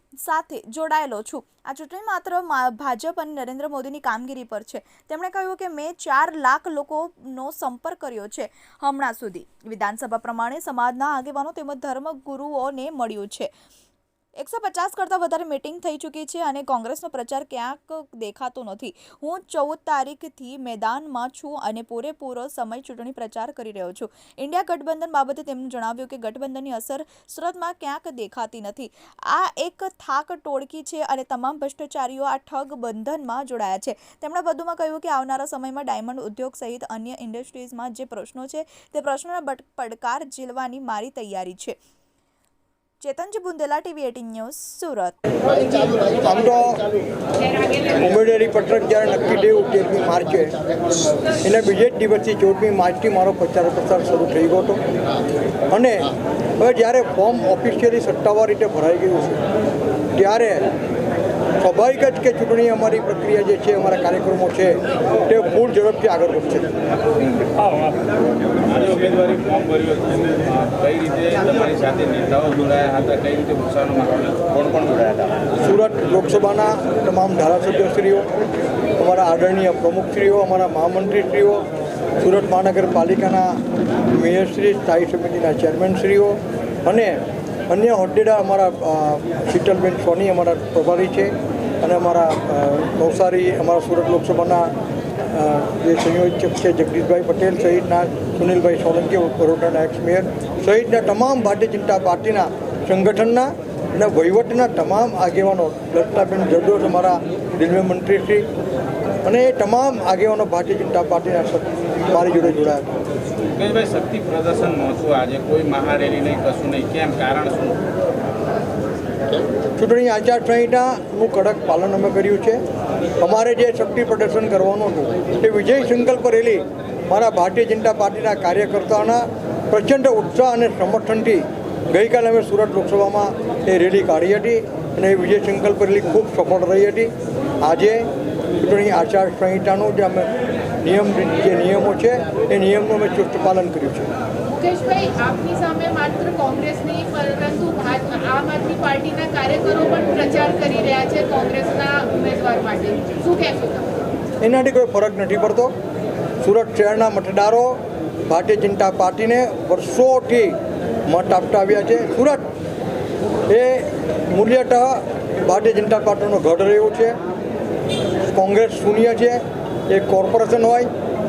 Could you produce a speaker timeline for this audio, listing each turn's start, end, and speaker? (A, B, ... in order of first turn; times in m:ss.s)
0:00.2-0:13.5 A
0:14.4-0:41.7 A
0:43.0-0:45.2 A
0:46.1-0:46.8 B
0:47.9-0:50.6 B
0:51.4-0:54.8 B
0:55.7-0:59.4 B
1:00.1-1:00.6 B
1:01.6-1:06.7 B
1:07.3-1:08.0 C
1:08.6-1:15.4 C
1:15.6-1:18.3 B
1:19.0-1:21.6 B
1:22.2-1:23.6 B
1:24.1-1:34.7 B
1:35.3-1:48.4 B
1:49.2-1:52.9 B
1:53.5-1:57.8 C
1:59.8-2:02.6 B
2:03.2-2:17.1 B
2:17.6-2:18.1 B
2:18.6-2:24.1 B
2:24.4-2:33.9 D
2:34.4-2:35.7 B
2:36.4-2:40.6 B
2:41.1-2:42.5 B
2:43.5-2:47.2 B
2:48.3-2:50.9 B